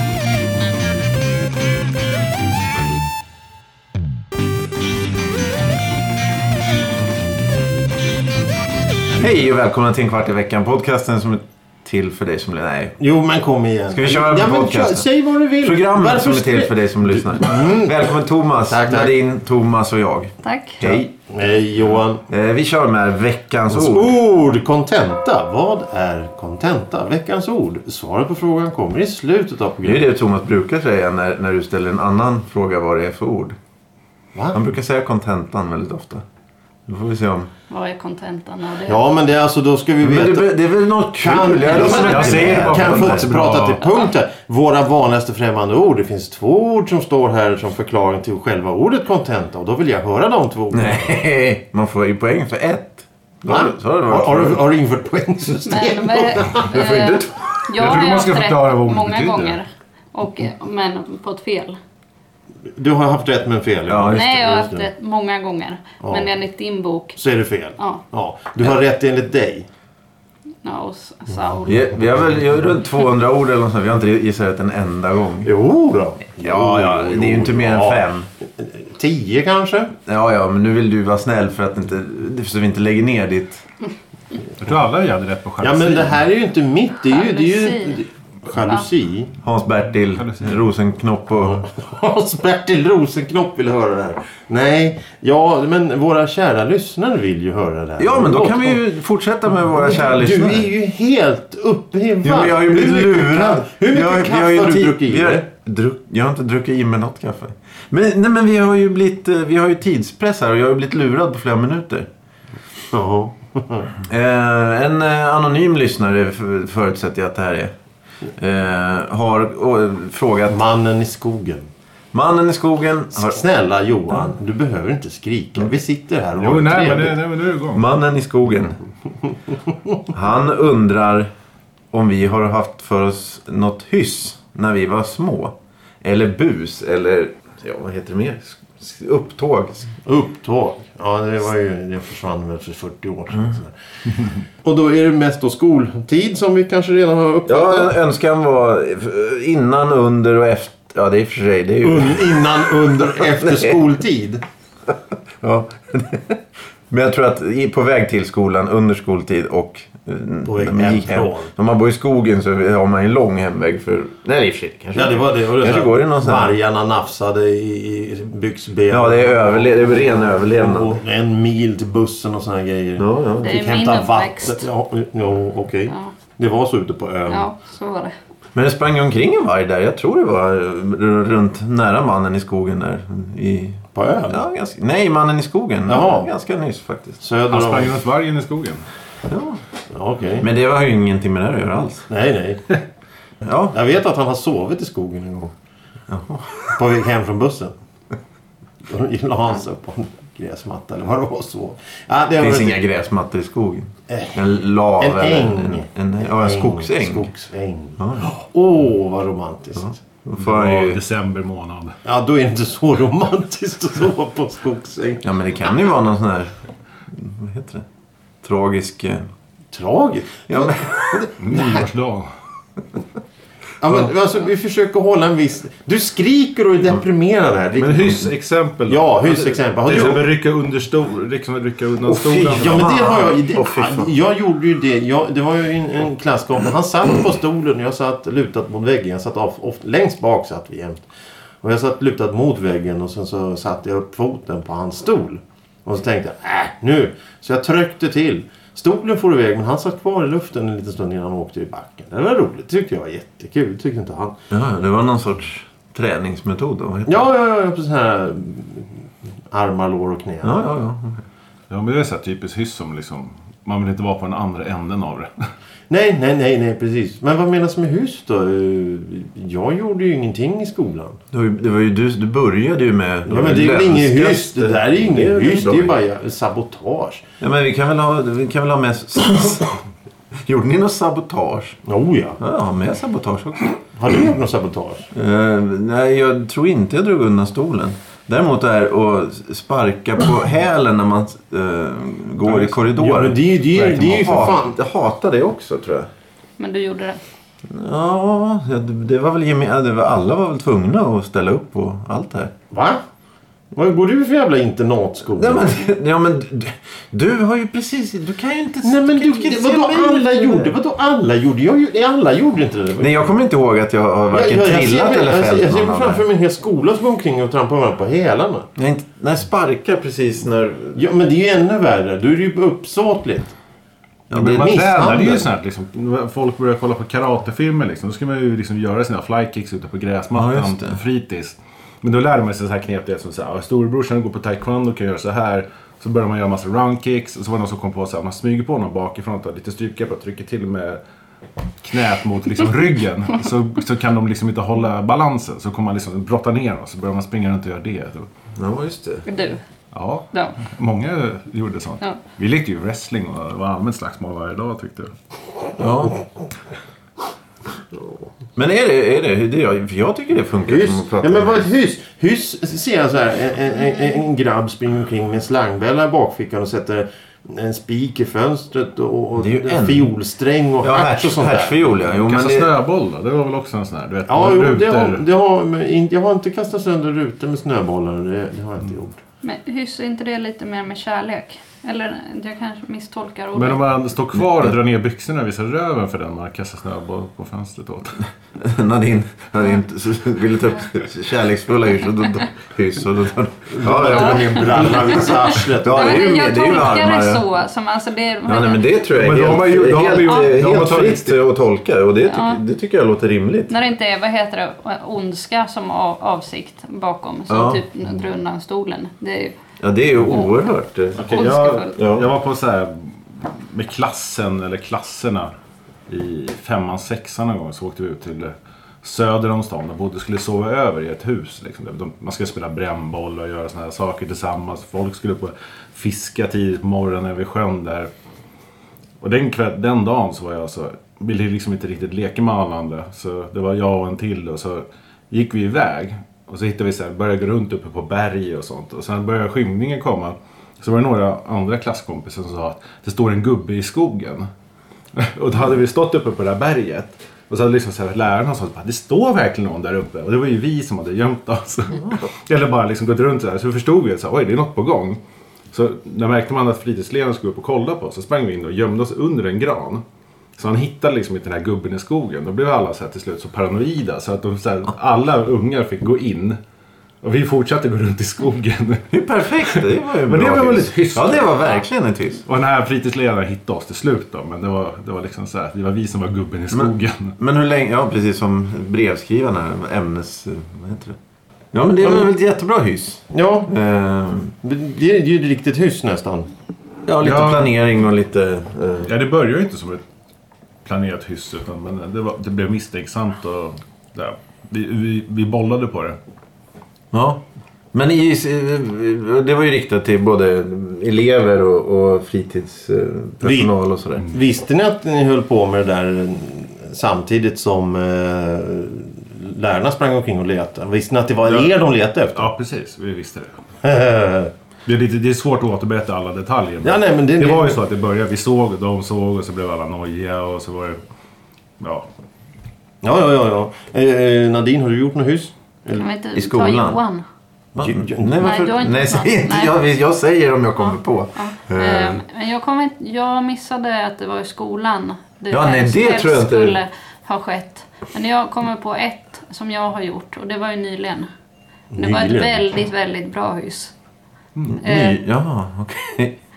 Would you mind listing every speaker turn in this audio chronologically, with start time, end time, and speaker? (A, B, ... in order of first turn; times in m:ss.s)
0:09.2-0:13.0 A
0:13.0-0:18.1 B
0:13.9-0:15.1 A
0:15.6-0:21.1 A
0:18.7-0:19.1 B
0:20.4-0:20.8 C
0:20.8-0:22.2 B
0:22.3-0:24.1 A
0:23.7-0:30.0 B
0:29.8-0:33.6 A
0:34.3-0:34.6 B
0:34.5-0:36.2 A
0:36.9-0:37.5 A
0:37.7-0:39.0 C
0:38.9-0:40.6 B
0:40.0-0:43.3 A
0:41.2-0:51.2 B
0:41.8-0:43.8 D
0:41.8-0:42.4 C
0:50.7-0:54.6 A
0:53.5-0:56.6 B
0:55.6-1:01.8 C
0:56.6-0:58.0 A
0:57.8-0:59.6 D
1:02.7-1:04.9 B
1:03.9-1:04.3 A
1:04.1-1:07.2 C
1:06.0-1:06.3 B
1:07.2-1:09.7 B
1:10.6-1:11.9 C
1:11.7-1:15.5 A
1:15.4-1:18.1 B
1:16.4-1:18.3 A
1:18.6-1:19.9 B
1:20.1-1:23.6 A
1:24.6-1:26.2 D
1:25.6-1:29.3 B
1:27.1-1:28.0 C
1:28.6-1:28.8 C
1:29.4-1:31.7 A
1:30.2-1:30.6 D
1:31.6-1:38.8 B
1:38.0-1:40.7 A
1:39.7-1:45.4 B
1:42.2-1:52.1 A
1:52.9-1:53.9 B
1:54.0-1:57.7 A
1:58.4-2:00.6 A
2:00.5-2:01.7 B
2:02.1-2:03.4 A
2:03.1-2:07.2 B
2:06.4-2:07.9 D
2:07.7-2:08.8 A
2:10.1-2:11.3 A
2:11.9-2:19.9 A
2:20.0-2:23.7 B
2:24.6-2:27.9 B
2:27.5-2:32.4 A
2:31.8-2:34.4 B
2:33.4-2:33.7 A
2:35.4-2:46.6 A
2:40.4-2:41.5 B
2:44.9-2:57.4 B
2:48.9-2:51.0 A
2:53.0-2:53.6 A
2:53.4-2:54.7 C
2:55.9-2:56.1 C
2:57.3-2:58.1 C
2:58.5-3:07.2 A
3:03.9-3:04.4 B
3:05.9-3:06.3 B
3:07.2-3:08.0 B
3:07.5-3:08.8 D
3:09.3-3:09.6 A
3:09.9-3:10.5 B
3:10.4-3:12.1 A
3:12.1-3:12.8 B
3:13.4-3:13.8 A
3:13.7-3:15.5 B
3:16.1-3:16.7 A
3:16.7-3:17.7 B
3:18.8-3:22.8 B
3:22.4-3:27.3 A
3:24.1-3:24.4 B
3:25.0-3:30.0 B
3:28.0-3:28.3 A
3:29.8-3:31.0 A
3:30.4-3:32.0 D
3:32.0-3:35.2 B
3:35.2-3:36.5 A
3:37.1-3:37.8 A
3:38.4-3:39.3 A
3:39.7-3:41.8 B
3:40.5-3:41.2 A
3:41.4-3:42.3 D
3:43.8-3:48.2 B
3:47.8-3:52.9 D
3:48.9-3:50.3 B
3:52.0-3:54.1 A
3:52.6-4:01.0 B
4:01.6-4:14.4 B
4:14.5-4:17.2 A
4:17.1-4:18.9 B
4:19.5-4:20.7 B
4:20.4-4:21.2 A
4:21.7-4:25.3 D
4:25.9-4:31.2 B
4:31.3-4:35.9 A
4:33.2-4:37.2 B
4:37.4-4:39.8 A
4:40.4-4:41.8 A
4:41.9-4:42.4 B
4:42.4-4:43.7 A
4:43.9-4:45.1 B
4:45.1-4:56.1 A
4:52.5-4:52.8 D
4:52.9-4:54.8 B
4:56.6-4:57.2 C
4:57.7-5:02.5 A
5:02.7-5:03.0 B
5:03.8-5:05.8 B
5:05.4-5:10.7 A
5:08.8-5:13.2 B
5:13.0-5:16.2 A
5:14.3-5:18.7 B
5:18.8-5:21.0 A
5:20.9-5:23.5 B
5:24.3-5:24.8 A
5:24.3-5:41.0 D
5:24.5-5:25.5 B
5:30.3-5:31.0 A
5:41.8-5:48.3 D
5:48.6-5:49.3 A
5:49.3-5:49.6 C
5:49.9-5:55.1 D
5:55.8-5:56.2 A
5:58.6-6:01.6 A
6:00.7-6:11.8 B
6:09.4-6:10.1 A
6:10.8-6:12.7 A
6:12.1-6:15.2 D
6:14.3-6:19.2 B
6:19.4-6:23.8 C
6:23.5-6:28.2 D
6:28.6-6:37.4 A
6:33.7-6:36.3 B
6:34.1-6:38.9 C
6:38.5-6:43.8 A
6:39.1-6:41.4 D
6:42.2-6:42.6 C
6:43.7-6:49.6 C
6:47.5-6:47.8 A
6:49.8-6:52.3 A
6:50.3-6:50.6 C
6:51.1-6:52.0 C
6:51.2-6:55.5 D
6:56.1-7:08.1 D
7:09.2-7:24.5 D
7:25.1-7:35.2 D
7:35.7-7:40.0 D
7:40.6-7:46.6 D
7:47.2-7:49.1 D
7:49.1-7:52.4 A
7:49.6-7:51.8 D
7:52.4-7:57.3 D
7:56.7-8:01.2 A
8:01.7-8:04.5 A
8:03.3-8:03.7 B
8:04.6-8:06.5 B
8:07.0-8:09.1 A
8:07.2-8:07.7 D
8:09.0-8:10.0 D
8:10.8-8:16.2 D
8:17.1-8:17.4 A
8:17.9-8:24.3 A
8:23.4-8:23.7 B
8:24.2-8:32.5 B
8:31.5-8:31.7 D
8:32.4-8:33.5 D
8:33.8-8:34.5 B
8:34.8-8:41.0 D
8:36.8-8:37.7 B
8:41.8-8:42.1 D
8:43.0-8:46.0 B
8:45.9-8:47.2 C
8:46.4-8:47.0 A
8:47.8-8:52.2 A
8:47.8-8:48.5 B
8:48.4-8:49.7 C
8:51.4-9:01.3 C
8:55.5-8:56.8 A
9:01.9-9:02.7 B
9:02.0-9:03.9 C
9:04.7-9:06.4 A
9:04.8-9:05.2 C